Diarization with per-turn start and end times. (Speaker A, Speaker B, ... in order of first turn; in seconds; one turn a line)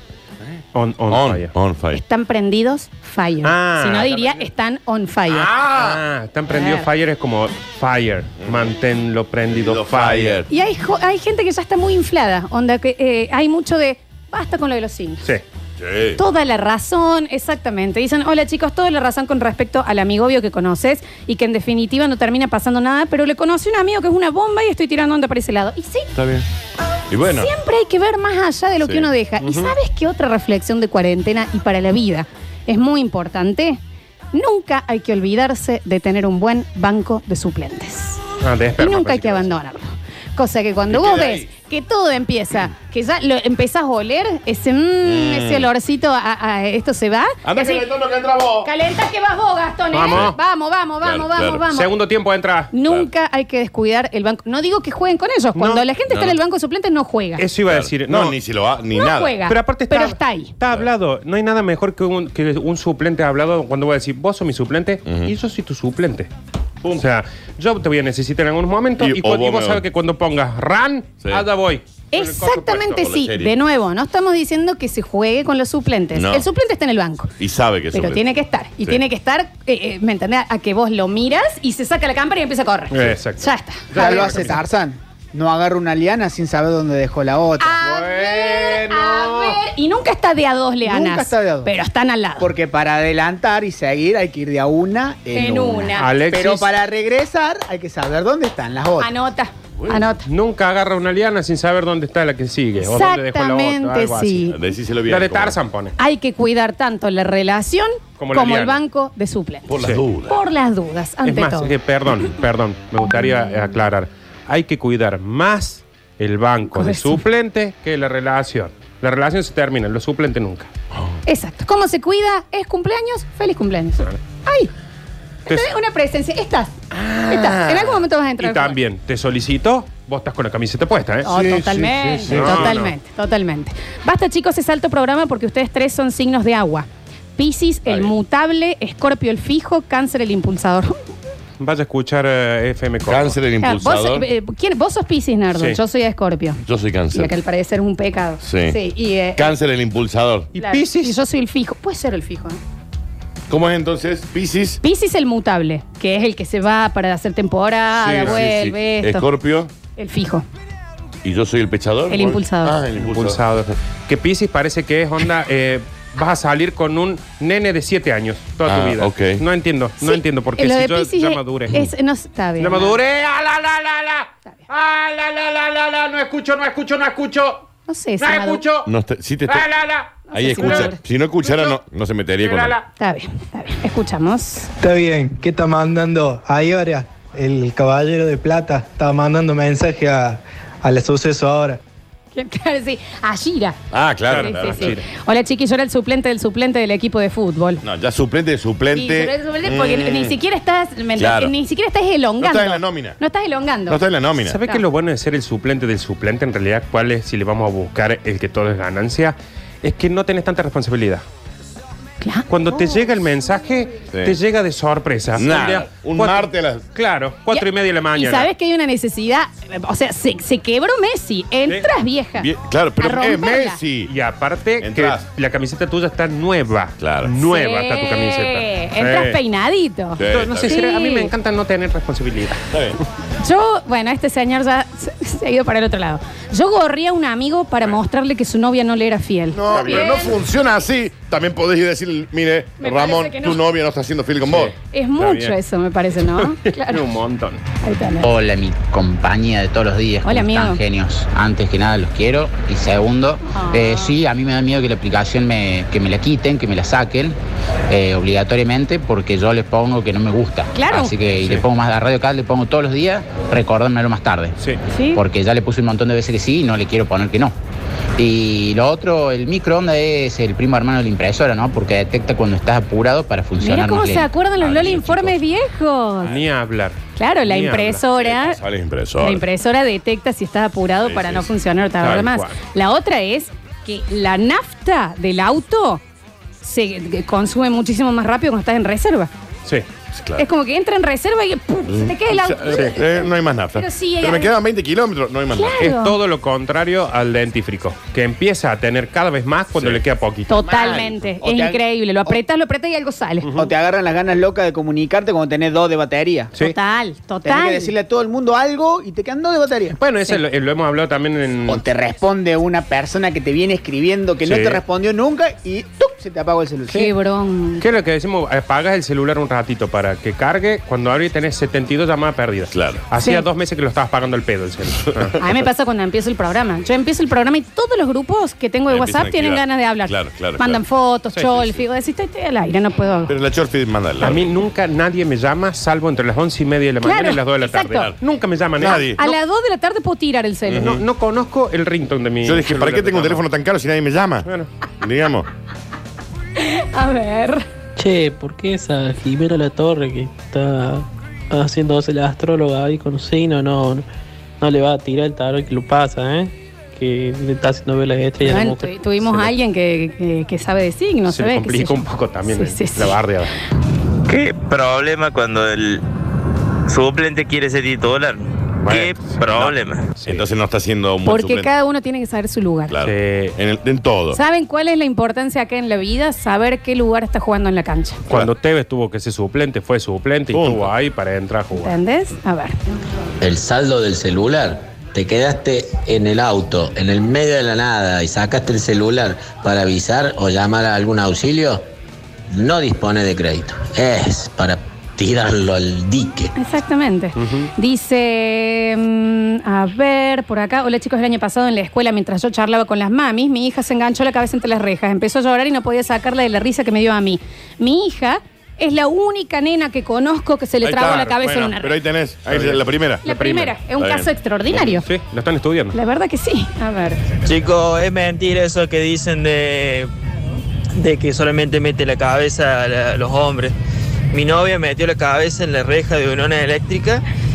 Speaker A: 0.7-1.5
Speaker B: 1.1-2.0
Speaker C: 1.9-5.5
Speaker A: 3.4-4.5
Speaker A: 5.3-10.4
Speaker B: 5.8-6.0
Speaker C: 6.5-6.9
Speaker B: 8.4-8.7
Speaker B: 9.5-10.5
Speaker C: 10.5-15.2
Speaker B: 15.8-16.2
Speaker C: 16.2-26.1
Speaker B: 26.1-26.5
Speaker B: 27.1-27.5
Speaker C: 27.3-33.8
Speaker B: 28.8-29.1
Speaker A: 29.4-29.7
Speaker C: 34.3-38.2
Speaker A: 38.4-39.6
Speaker C: 38.8-47.9
Speaker B: 40.9-41.5
Speaker B: 45.0-45.7
Speaker B: 47.4-48.7
Speaker C: 48.6-51.9
Speaker A: 49.9-50.4
Speaker B: 50.1-50.3
Speaker B: 51.0-51.6
Speaker A: 51.7-52.7
Speaker C: 52.7-57.4
Speaker A: 55.5-56.4
Speaker A: 57.4-58.4
Speaker B: 57.7-59.3
Speaker C: 58.9-60.5
Speaker A: 59.5-66.3
Speaker B: 65.1-65.3
Speaker B: 66.8-67.1
Speaker A: 67.0-73.1
Speaker B: 69.0-69.8
Speaker C: 72.1-77.3
Speaker B: 73.0-73.5
Speaker B: 76.1-76.5
Speaker B: 77.4-78.2
Speaker C: 77.9-84.3
Speaker A: 82.9-84.6
Speaker D: 83.9-87.8
Speaker C: 87.6-92.5
Speaker A: 87.8-89.6
Speaker D: 90.8-91.7
Speaker D: 92.4-99.2
Speaker C: 95.3-96.1
Speaker A: 96.0-96.7
Speaker C: 99.0-100.3
Speaker A: 100.3-104.5
Speaker C: 102.8-104.6
Speaker B: 104.5-105.6
Speaker A: 105.1-105.9
Speaker C: 106.0-109.7
Speaker A: 108.2-108.8
Speaker B: 109.7-110.4
Speaker C: 110.3-111.7
Speaker A: 111.2-120.7
Speaker C: 116.7-117.2
Speaker C: 121.3-124.7
Speaker C: 125.5-126.7
Speaker A: 126.9-131.3
Speaker C: 127.3-128.8
Speaker C: 131.2-140.9
Speaker B: 131.3-132.8
Speaker A: 132.0-132.9
Speaker A: 141.6-143.4
Speaker B: 143.1-144.3
Speaker C: 143.6-146.6
Speaker B: 146.6-147.3
Speaker C: 147.1-149.6
Speaker B: 148.4-148.8
Speaker B: 149.4-150.5
Speaker A: 150.5-151.2
Speaker C: 150.6-152.6
Speaker B: 153.5-154.8
Speaker C: 154.8-159.3
Speaker B: 157.9-159.7
Speaker A: 158.2-158.4
Speaker C: 160.0-160.5
Speaker B: 161.2-163.4
Speaker C: 162.1-162.8
Speaker A: 163.0-171.9
Speaker B: 168.7-169.4
Speaker C: 170.0-173.0
Speaker A: 172.6-177.7
Speaker C: 177.9-178.6
Speaker A: 178.2-178.9
Speaker B: 178.8-179.7
Speaker A: 179.5-181.8
Speaker C: 180.3-181.0
Speaker B: 180.3-182.8
Speaker A: 182.4-182.8
Speaker C: 183.0-184.7
Speaker E: 184.8-191.8
Speaker C: 192.3-193.8
Speaker B: 193.9-195.0
Speaker A: 194.2-195.1
Speaker C: 194.3-197.8
Speaker B: 197.8-200.4
Speaker C: 198.9-204.0
Speaker B: 201.2-201.5
Speaker B: 202.4-203.2
Speaker B: 203.9-204.6
Speaker A: 204.4-211.2
Speaker C: 212.2-213.0
Speaker A: 212.5-218.5
Speaker B: 215.4-216.9
Speaker C: 215.4-215.8
Speaker C: 217.5-223.8
Speaker B: 222.4-224.1
Speaker A: 224.1-229.4
Speaker B: 224.8-225.2
Speaker B: 227.0-227.3
Speaker C: 227.4-231.3
Speaker B: 230.2-230.8
Speaker A: 230.2-232.6
Speaker B: 232.7-233.0
Speaker C: 233.4-240.4
Speaker B: 239.5-244.7
Speaker A: 239.7-240.3
Speaker C: 242.8-243.6
Speaker A: 244.4-245.6
Speaker C: 244.9-247.0
Speaker A: 246.3-247.6
Speaker C: 247.8-248.3
Speaker F: 248.2-257.4
Speaker C: 250.2-250.8
Speaker C: 253.5-254.2
Speaker F: 257.9-264.6
Speaker C: 260.7-261.1
Speaker A: 261.2-261.6
Speaker C: 264.9-265.2
Speaker F: 265.1-267.5
Speaker F: 268.2-274.3
Speaker C: 273.6-276.4
Speaker A: 274.6-275.4
Speaker A: 276.2-278.0
Speaker C: 277.2-278.6
Speaker B: 278.2-279.5
Speaker C: 279.2-286.0
Speaker B: 281.0-281.5
Speaker A: 282.0-282.6
Speaker C: 286.6-289.3
Speaker B: 290.1-290.5
Speaker C: 290.4-294.5
Speaker B: 291.9-295.9
Speaker A: 292.7-293.0
Speaker C: 295.5-296.2
Speaker A: 295.8-301.1
Speaker B: 299.8-300.0
Speaker C: 300.5-303.6
Speaker B: 300.7-301.1
Speaker D: 301.4-302.4
Speaker D: 303.6-306.5
Speaker C: 306.6-307.9
Speaker D: 307.4-310.0
Speaker A: 310.0-311.9
Speaker D: 311.7-317.1
Speaker A: 314.4-314.8
Speaker C: 316.9-317.8
Speaker A: 317.8-325.4
Speaker B: 322.7-323.0
Speaker C: 323.1-323.5
Speaker C: 325.4-333.4
Speaker B: 328.9-330.8
Speaker B: 333.3-334.5
Speaker A: 334.2-339.4
Speaker C: 337.0-338.1
Speaker B: 338.8-339.2
Speaker C: 338.8-340.9
Speaker B: 340.7-341.0
Speaker A: 340.8-343.4
Speaker B: 342.4-344.5
Speaker B: 345.0-345.5
Speaker C: 346.6-347.6
Speaker G: 348.0-354.1
Speaker G: 354.6-358.9
Speaker C: 358.4-363.1
Speaker A: 361.3-363.6
Speaker H: 364.3-366.0
Speaker H: 366.9-370.1
Speaker A: 368.8-370.4
Speaker B: 370.2-371.7
Speaker C: 371.2-373.0
Speaker B: 372.9-374.4
Speaker A: 373.0-373.6
Speaker C: 374.3-378.2
Speaker A: 378.3-381.9
Speaker B: 380.5-380.9
Speaker C: 381.7-382.8
Speaker I: 383.4-391.8
Speaker I: 392.5-396.5
Speaker C: 396.6-412.0
Speaker A: 397.4-397.7
Speaker B: 410.8-413.2
Speaker A: 411.0-411.3
Speaker A: 412.5-413.8
Speaker C: 413.2-415.1
Speaker B: 414.0-414.3
Speaker A: 414.7-416.0
Speaker C: 415.9-417.2
Speaker J: 417.5-420.1
Speaker J: 421.0-423.7
Speaker J: 424.3-427.2